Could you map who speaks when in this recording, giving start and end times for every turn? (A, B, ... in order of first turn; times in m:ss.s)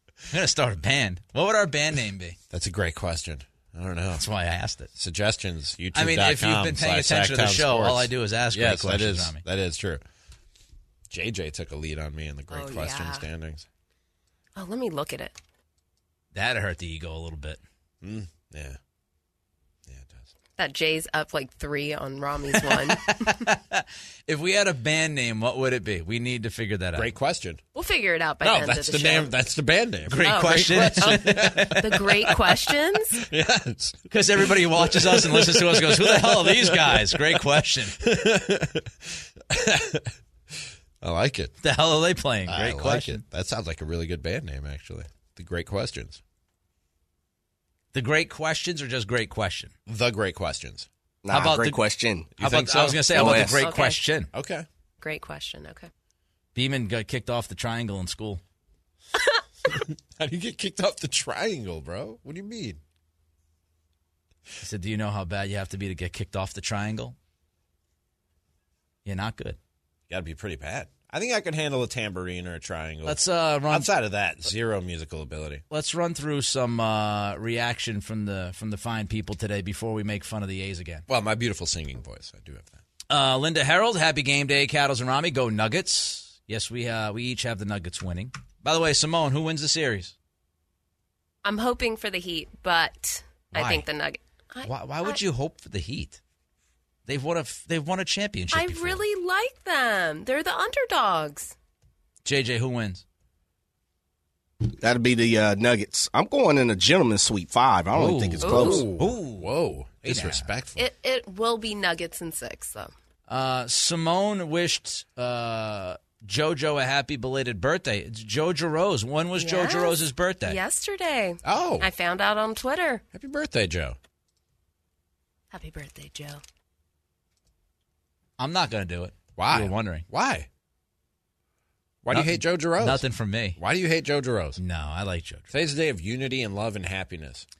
0:00.3-0:02.4 A
0:02.5-0:04.2 B
0:04.2-0:04.9 A
0:04.9-0:10.0 B
0:05.9-0:09.4 A
0:11.1-0:13.6 B
0:12.5-0:13.2 C
0:14.6-0:15.4 C
0:16.3-0:17.6 A
0:18.0-0:18.8 B
0:19.9-0:20.3 B
0:20.6-0:23.3 C
0:22.7-0:27.1 A
0:27.0-0:27.6 B
0:27.7-0:29.3 C
0:28.4-0:37.4 B
0:30.1-0:31.8 A
0:30.2-0:33.2 C
0:34.1-0:38.0 A
0:38.0-0:38.9 B
0:39.5-0:40.1 B
0:41.0-0:41.5 B
0:41.6-0:43.2 A
0:42.5-0:46.2 B
0:47.9-0:49.7 A
0:49.8-0:50.9 B
0:51.2-0:52.3 D
0:51.3-0:51.8 A
0:52.4-0:53.4 B
0:52.4-0:54.3 A
0:53.1-0:53.6 D
0:53.4-0:54.0 C
0:54.3-0:54.6 B
0:55.0-0:55.9 C
0:56.5-0:58.4 A
0:59.7-1:02.8 B
1:04.6-1:07.2 A
1:09.0-1:09.6 A
1:10.1-1:15.6 B
1:13.0-1:13.9 A
1:15.7-1:21.0 A
1:21.1-1:22.8 B
1:23.1-1:30.1 A
1:31.4-1:35.2 C
1:33.5-1:33.8 A
1:34.6-1:36.2 A
1:37.0-1:39.0 A
1:38.5-1:41.5 C
1:42.2-1:43.0 A
1:44.8-1:48.9 D
1:47.9-1:49.5 A
1:48.4-1:48.8 C
1:48.5-1:50.8 B
1:50.0-1:50.5 A
1:50.8-1:52.9 C
1:53.3-2:00.6 A
1:59.4-2:03.0 C
2:01.4-2:01.9 B
2:03.1-2:04.0 B
2:05.5-2:06.4 C
2:08.4-2:10.0 A
2:09.4-2:10.5 B
2:12.0-2:13.0 B
2:12.1-2:13.6 A
2:13.6-2:14.6 B
2:14.6-2:15.5 A
2:15.5-2:17.4 B